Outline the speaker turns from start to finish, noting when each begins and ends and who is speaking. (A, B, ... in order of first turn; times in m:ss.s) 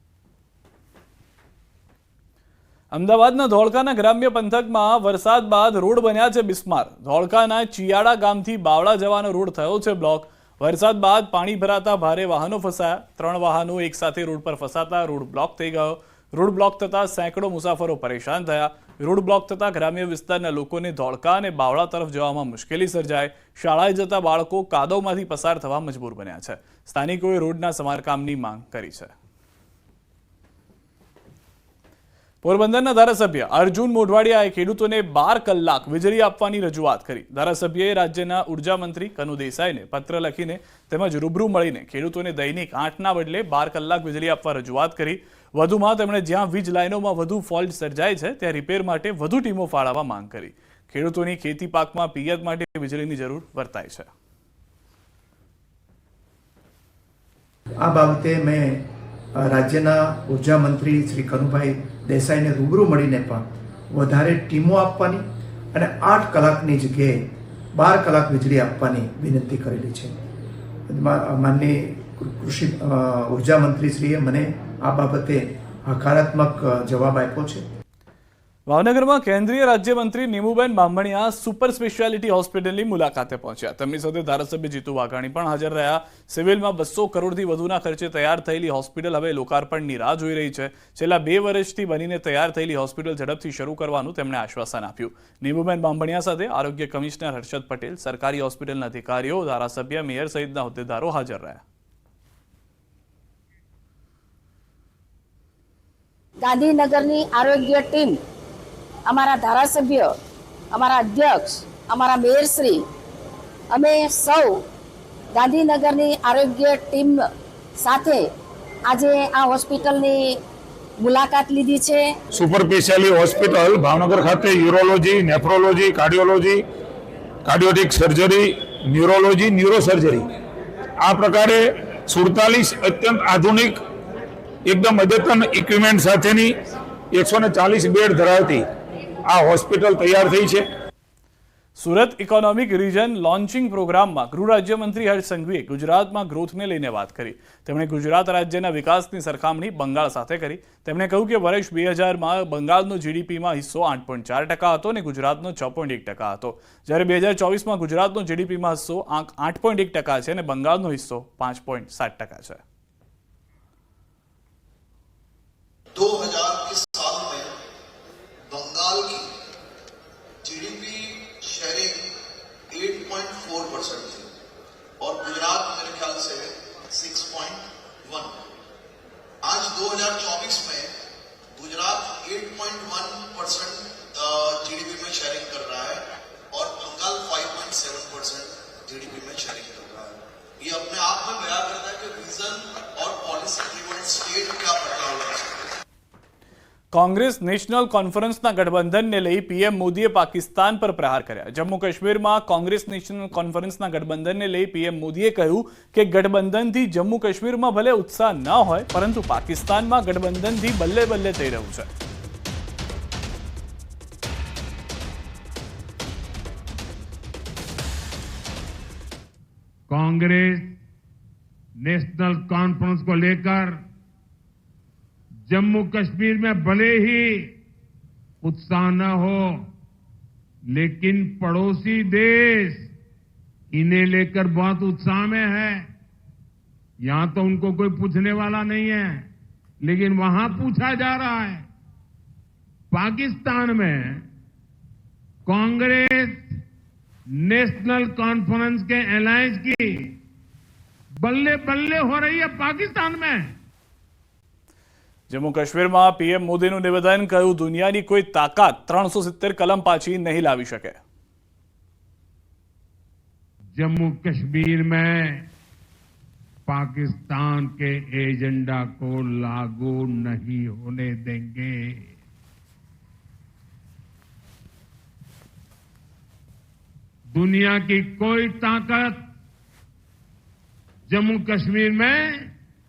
0:02.9-0:29.1 A
0:32.4-0:54.1 A
0:57.8-0:58.8 B
0:59.3-1:10.1 B
1:10.9-1:17.6 B
1:18.7-1:41.6 A
1:46.4-1:48.2 C
1:49.1-1:50.1 C
1:50.7-1:52.8 C
1:53.7-1:54.6 C
1:55.3-1:57.2 C
1:57.8-1:58.3 C
1:58.9-2:00.4 C
2:01.0-2:02.1 C
2:02.3-2:06.6 D
2:07.4-2:10.2 D
2:11.0-2:13.8 D
2:14.6-2:16.5 D
2:17.1-2:18.6 D
2:19.2-2:20.6 D
2:21.8-2:42.6 A
2:46.0-2:47.5 E
2:48.5-2:49.2 E
2:50.4-2:52.0 E
2:52.7-2:54.2 E
2:55.0-2:58.3 E
2:59.4-3:00.9 E
3:01.6-3:06.0 E
3:06.5-3:15.6 E
3:16.9-3:31.9 A
3:39.9-3:40.8 F
3:41.8-3:43.8 F
3:45.5-3:47.5 F
3:48.4-3:49.6 F
3:50.7-3:52.9 F
3:53.7-3:55.9 F
3:57.0-3:59.3 F
3:59.8-4:01.6 F
4:02.9-4:04.2 F
4:05.4-4:06.4 F
4:07.4-4:10.2 F
4:11.2-4:13.6 F
4:15.3-4:21.0 A
4:23.7-4:25.5 F
4:26.7-4:32.1 F
4:37.3-4:39.3 F
4:41.1-4:42.5 F